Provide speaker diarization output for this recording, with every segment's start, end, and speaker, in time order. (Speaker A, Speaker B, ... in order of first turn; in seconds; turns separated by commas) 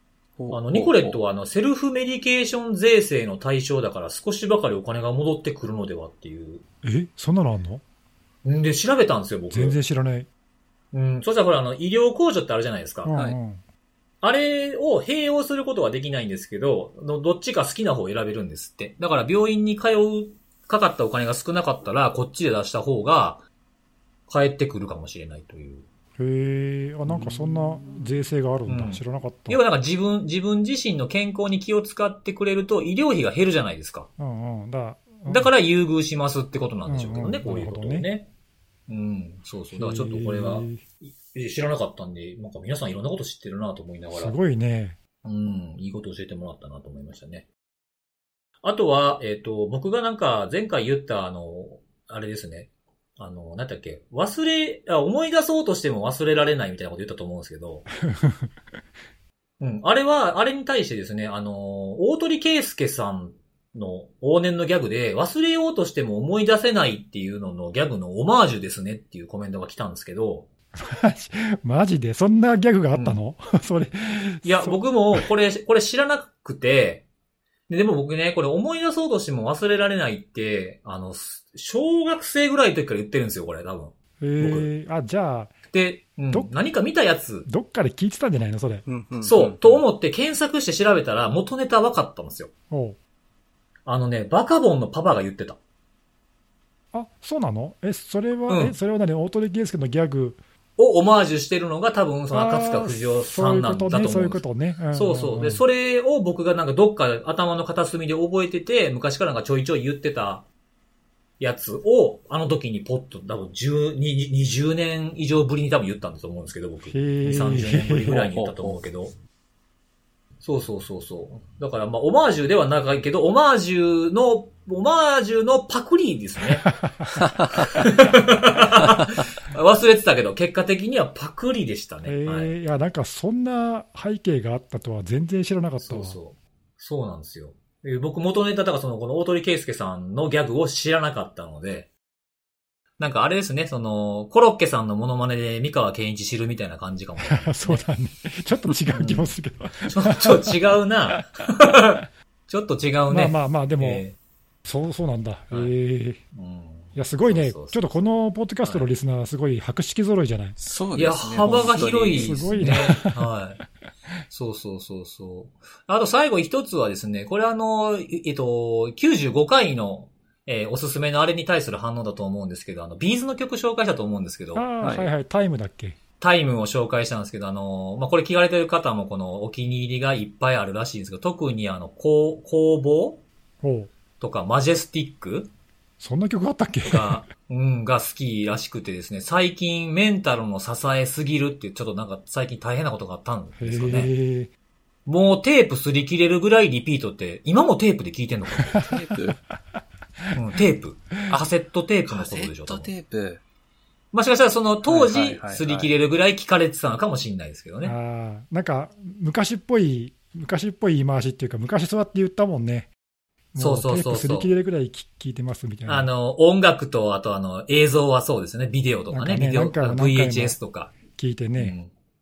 Speaker A: 0.4-1.2, Speaker B: 0.5-6.6, Speaker C: 6.8-7.8, Speaker B: 8.4-9.8, Speaker C: 9.5-10.3, Speaker B: 10.9-13.1, Speaker C: 13.0-13.6, Speaker B: 14.2-23.4, Speaker B: 24.3-25.9, Speaker C: 26.2-29.6, Speaker B: 27.1-27.7, Speaker B: 28.7-34.1, Speaker C: 34.2-35.5, Speaker B: 35.3-38.3, Speaker C: 36.9-38.1, Speaker B: 38.9-44.3, Speaker C: 39.7-40.8, Speaker C: 44.1-45.0, Speaker B: 45.2-47.5, Speaker B: 48.6-57.9, Speaker C: 58.1-58.5, Speaker B: 59.6-70.5, Speaker C: 70.8-75.2, Speaker B: 72.9-73.2, Speaker B: 74.4-77.0, Speaker B: 77.7-84.7, Speaker C: 84.2-85.5, Speaker B: 85.7-87.5, Speaker C: 87.5-88.8, Speaker A: 88.9-89.8, Speaker B: 89.2-92.5, Speaker C: 92.7-93.0, Speaker B: 93.9-95.6, Speaker C: 96.9-100.4, Speaker B: 98.5-98.7, Speaker B: 100.8-110.5, Speaker C: 102.3-105.6, Speaker B: 111.4-119.1, Speaker C: 116.9-118.2, Speaker A: 118.0-118.8, Speaker B: 120.4-126.7, Speaker C: 126.6-127.2, Speaker A: 127.2-127.5, Speaker B: 127.6-132.5, Speaker C: 132.0-136.2, Speaker B: 135.8-141.9, Speaker B: 143.0-147.8, Speaker C: 147.2-150.5, Speaker B: 148.9-154.2, Speaker C: 153.1-154.0, Speaker C: 154.6-156.2, Speaker B: 156.3-158.0, Speaker C: 156.9-160.6, Speaker B: 158.6-158.9, Speaker A: 160.6-162.9, Speaker B: 160.9-163.6, Speaker C: 161.4-163.2, Speaker B: 164.3-174.7, Speaker C: 174.5-175.9, Speaker A: 174.8-175.1, Speaker B: 176.2-183.2, Speaker C: 183.6-183.9, Speaker B: 184.2-185.5, Speaker C: 186.0-187.2, Speaker B: 186.8-194.1, Speaker C: 193.6-194.5, Speaker B: 195.1-198.8, Speaker C: 198.6-199.0, Speaker A: 198.8-199.4, Speaker B: 200.3-202.9, Speaker A: 202.1-203.4, Speaker B: 204.1-207.9, Speaker A: 204.9-205.9, Speaker C: 207.8-212.9, Speaker C: 213.5-216.1, Speaker B: 213.6-214.5, Speaker B: 215.9-220.9, Speaker C: 219.1-221.7, Speaker B: 221.6-221.9